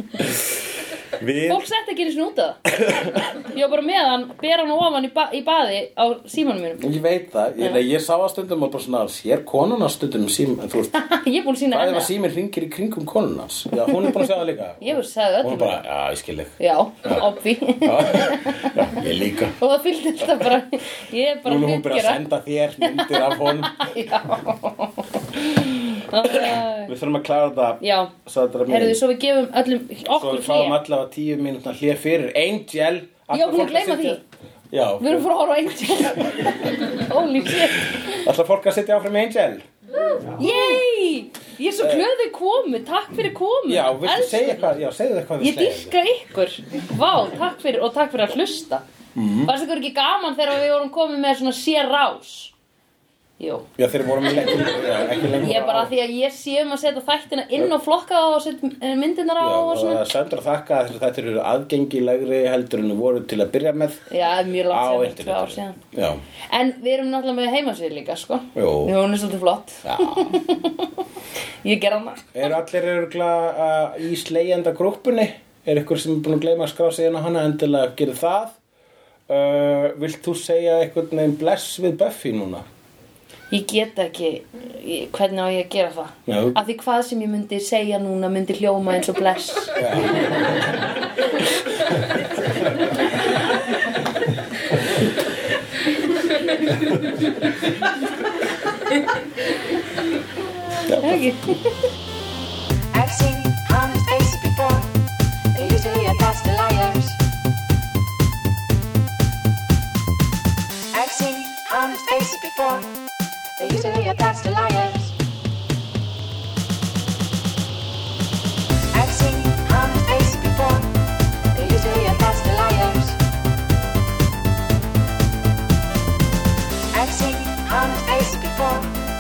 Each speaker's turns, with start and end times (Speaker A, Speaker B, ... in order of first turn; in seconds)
Speaker A: 1.1-1.6, 2.7-3.3, 6.8-11.0, 11.7-17.3, 17.8-19.6, 21.4-23.9, 26.1-29.0, 30.1-34.2, 34.7-35.3, 36.2-36.6, 37.6-39.6, 41.8-42.1, 43.7-45.9, 49.1-49.5, 53.8-55.9, 59.4-64.1, 64.7-66.2, 68.5-68.9, 69.8-70.4, 72.3-78.6, 79.3-82.7, 86.3-86.6, 89.8-90.2, 100.8-101.3
Speaker B: 1.5-6.8, 11.0-12.1, 14.0-14.3, 14.8-15.8, 16.6-18.9, 19.6-22.2, 22.8-26.9, 27.8-28.1, 28.7-30.8, 33.3-34.2, 35.0-38.2, 40.2-44.6, 45.4-48.8, 49.5-52.5, 53.4-53.7, 55.4-60.0, 64.1-65.8, 66.5-70.9, 71.6-72.2, 83.5-89.8, 101.0-101.7
Speaker C: 102.9-104.9, 105.5-107.2, 110.9-113.0, 113.6-115.1, 118.9-121.0, 121.5-123.2, 126.9-128.9